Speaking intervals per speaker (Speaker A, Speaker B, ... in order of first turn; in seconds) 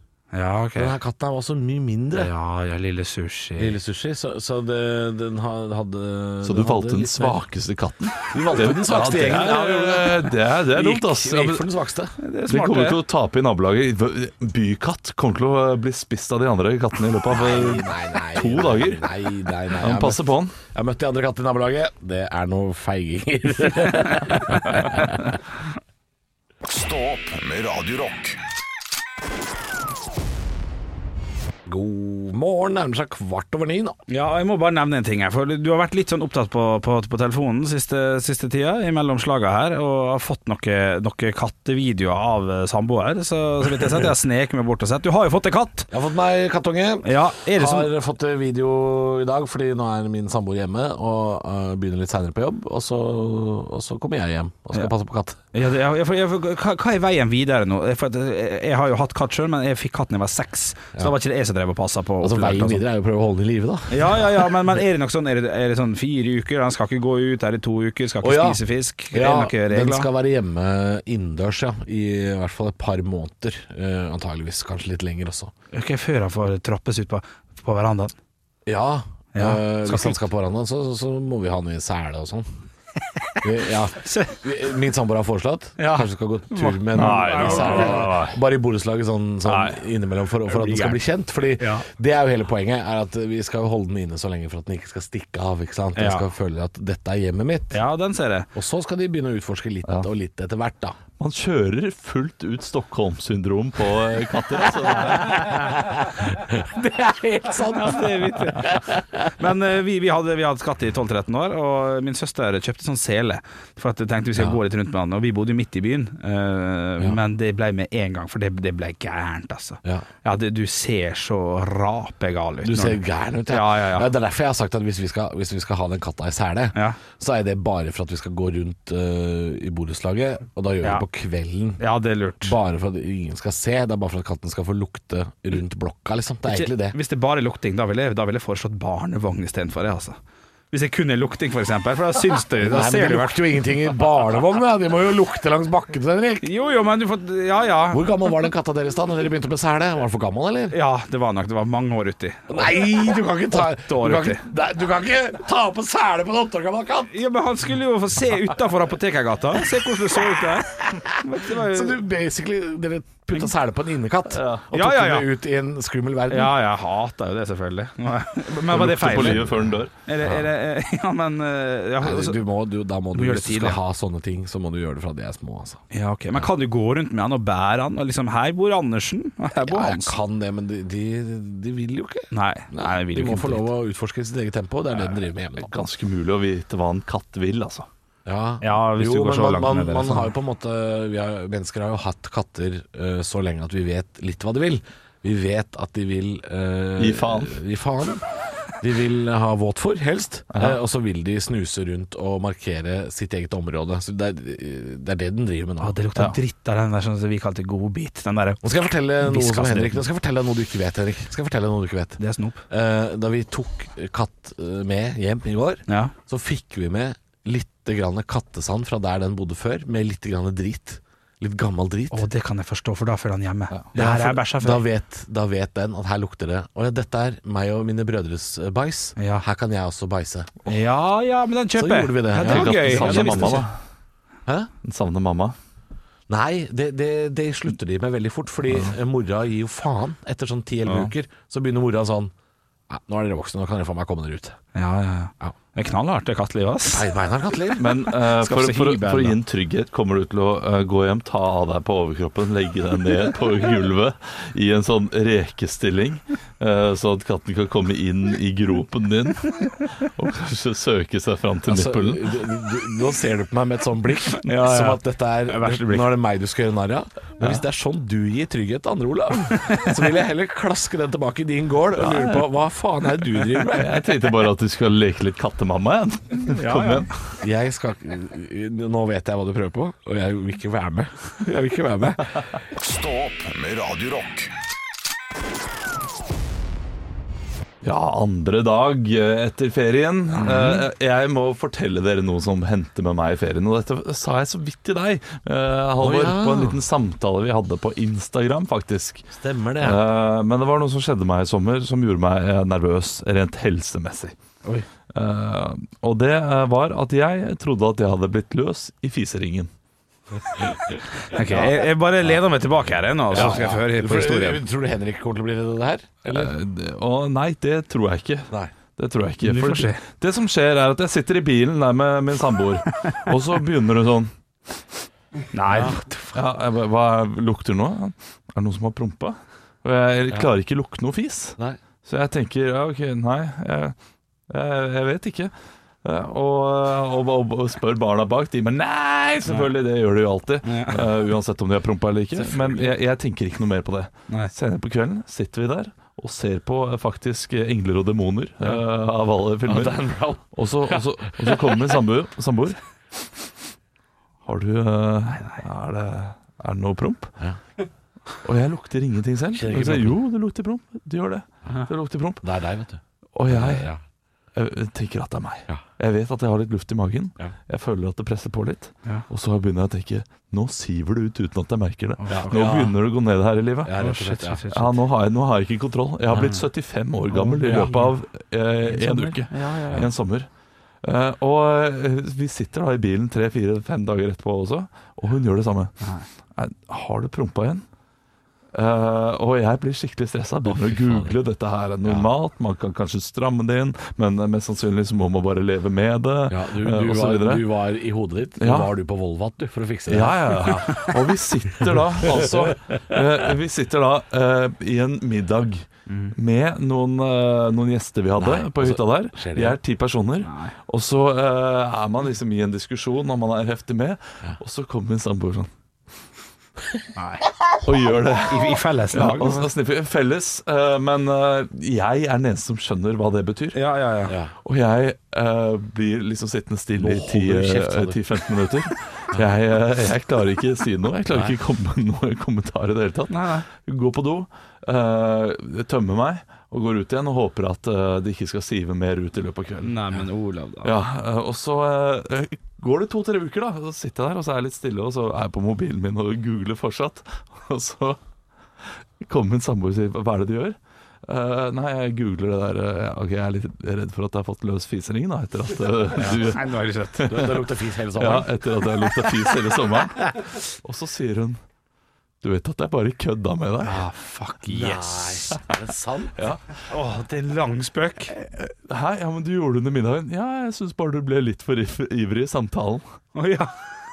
Speaker A: 0.3-0.9, 2.1-3.8, 12.2-13.0, 34.1-45.9, 47.0-47.9, 55.5-62.8, 63.9-70.1, 75.7-78.1, 79.3-80.2, 84.0-84.4, 85.8-88.4, 89.4-89.8, 90.5-91.0, 91.6-91.8, 96.0-96.2, 97.7-98.5, 107.4-124.1, 131.8-132.6, 136.5-140.2, 140.7-143.6, 146.4-148.1, 150.7-154.4, 157.1-162.0, 164.7-165.3, 166.3-169.5, 170.1-172.4, 173.1-173.8, 175.9-180.1, 182.3-183.7, 188.6-190.3, 205.8-208.6, 209.2-210.0, 212.2-212.6, 215.9-216.1, 222.1-224.8, 229.2-229.4, 230.7-233.7, 244.7-247.1, 248.3-249.4, 264.4-266.1, 276.4-277.1, 311.3-314.6, 319.4-320.0, 325.5-326.3, 340.6-341.0, 372.2-372.9, 374.0-374.9, 377.3-378.1, 378.9-380.1, 386.0-386.2, 406.1-406.3, 410.4-410.7, 417.1-417.4, 418.5-419.7, 423.7-424.3, 433.3-433.6, 439.8-440.9, 456.2-457.3, 463.8-465.5, 466.9-468.3, 473.3-473.7
Speaker B: 0.8-2.3, 3.6-7.4, 8.3-12.2, 17.3-25.4, 31.7-34.0, 45.9-55.4, 62.2-64.5, 68.2-68.6, 69.1-75.5, 78.7-82.5, 83.4-97.8, 98.5-101.0, 105.2-109.3, 122.6-131.8, 132.4-137.0, 142.6-146.4, 147.9-150.8, 152.5-157.2, 160.7-166.5, 169.2-169.5, 172.0-175.8, 179.6-185.8, 188.2-206.0, 208.6-212.2, 212.7-222.2, 223.9-230.6, 231.8-233.6, 236.3-242.3, 242.9-244.6, 246.9-247.9, 261.7-274.1, 277.4-282.5, 290.4-290.8, 296.0-296.8, 299.3-300.0, 311.5-311.7, 313.3-316.5, 325.7-326.0, 342.4-342.9, 349.7-351.8, 359.5-360.2, 362.4-364.0, 372.3-372.9, 373.8-374.6, 391.0-391.3, 396.5-401.0, 408.4-409.8, 424.3-424.5, 427.0-428.2, 457.3-458.6, 464.7-466.4
Speaker C: 6.4-11.6, 12.5-19.1, 19.7-20.5, 86.9-87.7, 101.2-105.7, 164.3-164.6, 168.7-169.9, 185.6-187.9, 197.0-197.6, 200.5-200.8, 232.4-233.7, 234.8-235.6, 247.8-262.4, 272.0-272.5, 273.4-277.1, 287.8-299.2, 299.8-304.3, 305.1-309.7, 316.3-324.3, 326.3-333.9, 334.5-353.5, 354.4-357.3, 358.4-362.4, 363.3-363.9, 364.5-374.0, 374.7-380.5, 381.0-385.9, 386.5-387.8, 388.7-397.7, 398.6-398.9, 400.1-415.7, 417.8-423.8, 424.6-439.9, 440.8-448.2, 448.8-457.6, 458.1-461.6, 462.4-464.0, 466.4-466.6, 468.3-473.0
Speaker D: 26.6-28.4, 282.7-284.5